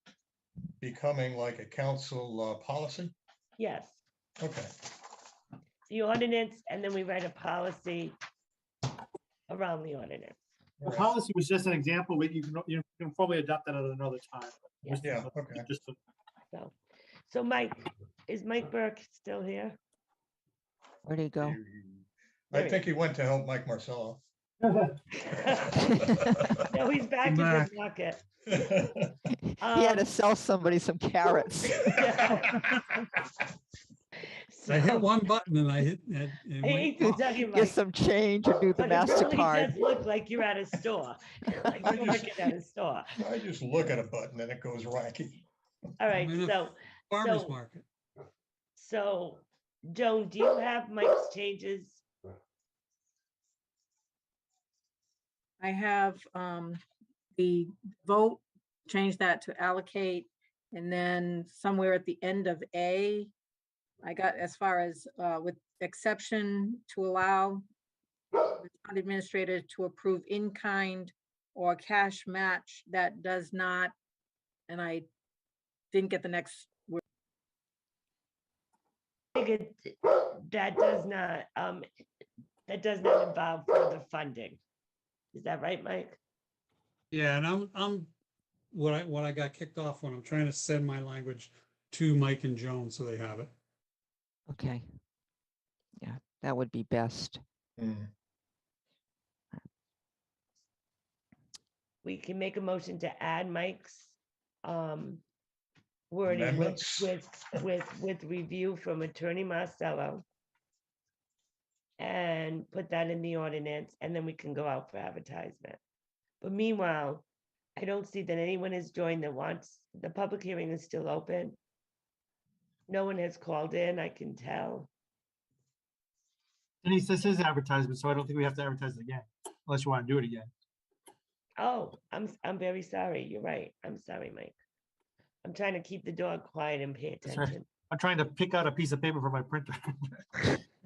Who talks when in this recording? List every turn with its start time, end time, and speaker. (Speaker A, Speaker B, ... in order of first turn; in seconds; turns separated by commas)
Speaker A: 0.8-3.1, Speaker B: 3.6-4.0, Speaker A: 4.4-4.7, Speaker B: 5.9-8.2, Speaker B: 9.5-10.3, Speaker A: 10.8-11.1, Speaker C: 10.8-16.0, Speaker A: 15.0-15.7, Speaker B: 17.3-19.8, Speaker D: 21.1-21.6, Speaker A: 21.4-24.2, Speaker B: 22.5-22.8, Speaker C: 24.6-24.9, Speaker B: 25.1-26.0, Speaker A: 26.1-26.5, Speaker B: 26.6-28.2, Speaker E: 27.3-27.7, Speaker A: 28.5-29.0, Speaker B: 29.6-30.1, Speaker D: 29.7-32.1, Speaker B: 31.8-32.6, Speaker B: 34.5-35.1, Speaker E: 34.7-37.2, Speaker B: 36.6-37.8, Speaker D: 37.0-39.8, Speaker B: 38.7-43.1, Speaker A: 41.8-42.3, Speaker A: 43.2-45.4, Speaker B: 46.0-47.6, Speaker E: 46.1-47.8, Speaker B: 48.8-52.0, Speaker F: 55.6-56.8, Speaker F: 57.4-63.3, Speaker F: 64.0-67.7, Speaker F: 68.3-73.9, Speaker F: 74.7-75.1, Speaker F: 75.9-77.0, Speaker B: 79.3-81.8, Speaker B: 82.7-84.6, Speaker B: 85.3-86.2, Speaker E: 87.1-88.1, Speaker E: 88.7-93.5, Speaker D: 94.5-94.8, Speaker D: 96.0-97.4, Speaker A: 97.8-98.1, Speaker B: 102.0-105.2, Speaker B: 106.1-110.2, Speaker A: 106.3-107.1, Speaker B: 112.0-115.8, Speaker B: 116.4-117.2, Speaker B: 117.8-121.6, Speaker B: 122.9-124.9, Speaker C: 126.8-130.5, Speaker B: 131.6-134.5, Speaker B: 135.4-137.7, Speaker C: 137.2-140.6